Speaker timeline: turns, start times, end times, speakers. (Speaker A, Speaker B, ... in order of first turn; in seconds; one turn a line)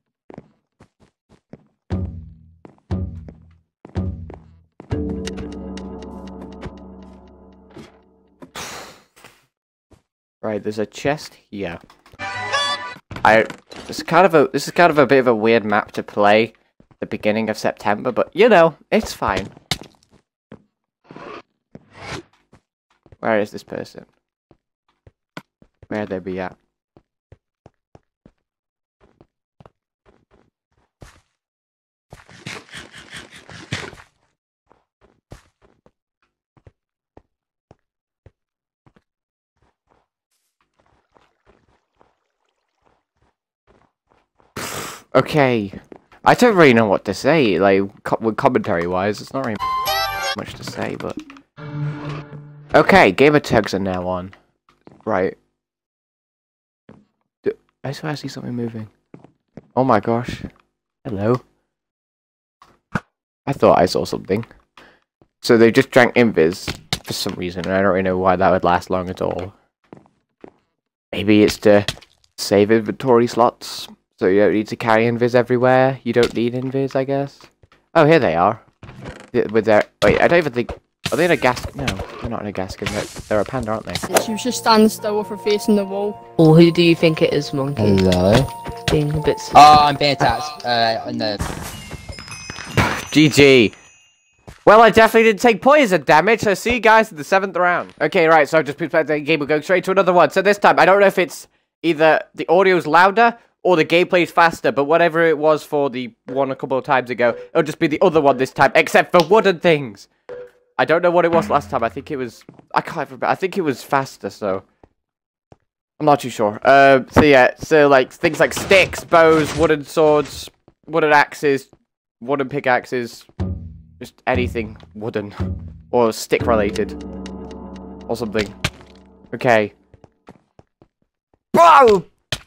Speaker A: 10.4-11.8
Speaker A: 13.2-19.5
Speaker A: 23.2-24.1
Speaker A: 25.9-26.5
Speaker A: 44.6-49.6
Speaker A: 50.4-51.2
Speaker A: 52.7-54.3
Speaker A: 55.0-55.4
Speaker A: 57.4-58.9
Speaker A: 59.8-60.5
Speaker A: 61.0-61.4
Speaker A: 63.5-64.5
Speaker A: 65.4-69.5
Speaker A: 71.1-78.6
Speaker A: 79.3-84.0
Speaker B: 84.1-86.2
Speaker C: 86.4-88.0
Speaker D: 87.8-88.5
Speaker C: 88.9-89.6
Speaker D: 89.5-91.4
Speaker A: 92.8-93.7
Speaker A: 94.7-110.1
Speaker A: 110.8-114.6
Speaker A: 116.0-123.3
Speaker A: 124.0-125.4
Speaker A: 125.9-127.0
Speaker A: 128.1-128.6
Speaker A: 129.3-129.7
Speaker A: 131.5-132.1